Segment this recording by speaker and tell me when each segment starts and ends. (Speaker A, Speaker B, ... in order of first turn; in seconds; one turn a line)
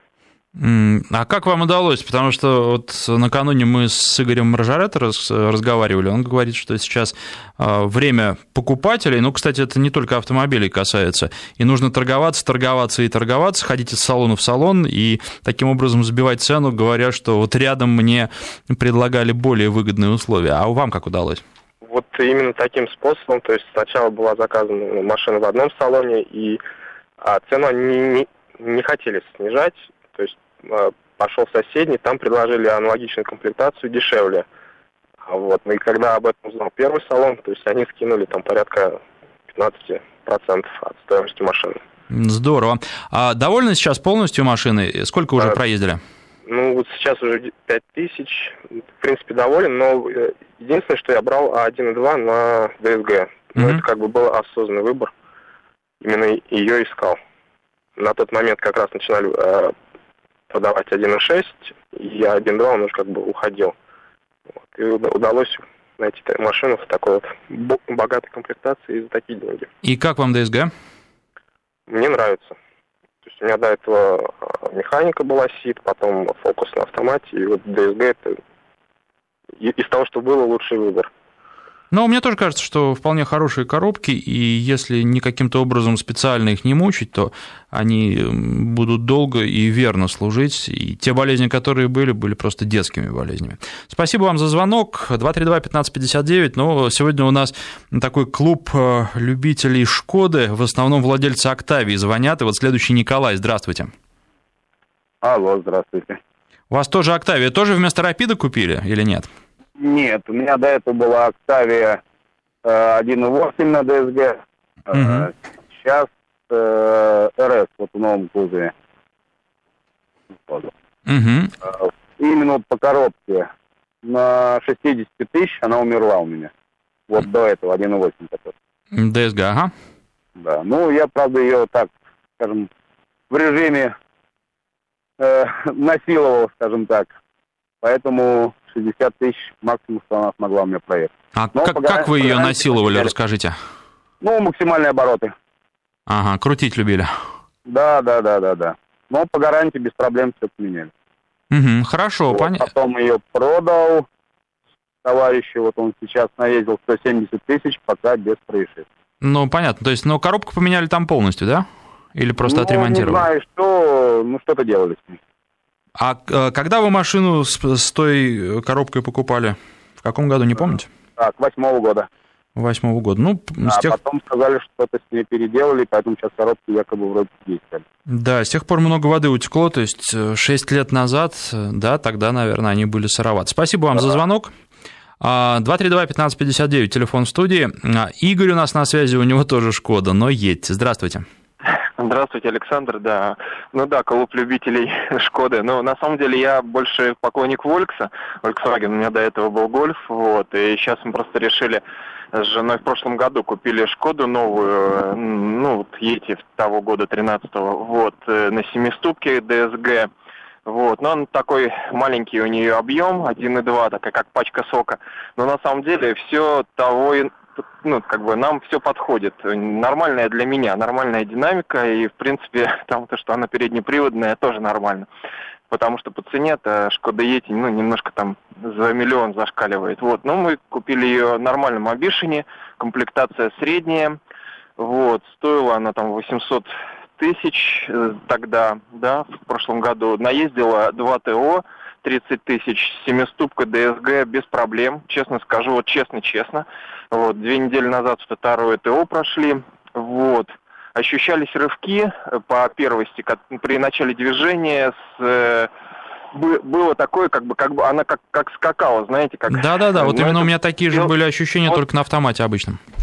Speaker A: 0.6-21.4
Speaker B: 21.8-26.6
Speaker B: 27.2-34.5
Speaker B: 35.2-41.8
Speaker A: 42.1-46.0
Speaker B: 46.5-55.1
Speaker B: 56.0-57.2
Speaker B: 58.0-59.8
Speaker B: 60.5-63.8
Speaker B: 64.7-69.7
Speaker A: 69.8-70.7
Speaker B: 71.9-72.6
Speaker B: 73.2-78.4
Speaker B: 79.6-81.1
Speaker A: 81.9-103.9
Speaker C: 105.2-106.2
Speaker A: 106.7-109.3
Speaker C: 109.8-112.0
Speaker C: 112.7-118.7
Speaker A: 114.9-115.3
Speaker A: 121.1-121.5
Speaker C: 121.7-123.5
Speaker C: 124.0-126.5
Speaker C: 127.1-128.5
Speaker A: 128.9-129.7
Speaker C: 130.4-132.7
Speaker C: 133.3-133.9
Speaker C: 135.2-137.2
Speaker C: 137.8-143.1
Speaker A: 141.3-143.6
Speaker C: 144.2-145.3
Speaker A: 146.1-147.1
Speaker C: 147.7-150.9
Speaker A: 151.5-152.7
Speaker C: 152.3-154.1
Speaker C: 155.0-158.8
Speaker A: 159.2-163.3
Speaker C: 162.4-165.2
Speaker A: 166.0-170.9
Speaker C: 171.2-172.1
Speaker A: 172.6-174.0
Speaker C: 173.7-177.8
Speaker A: 178.1-184.5
Speaker A: 185.2-191.2
Speaker D: 192.0-201.8
Speaker D: 202.3-210.1
Speaker D: 210.7-225.1
Speaker D: 225.7-234.2
Speaker D: 234.8-255.7
Speaker D: 256.3-261.1
Speaker A: 259.5-262.8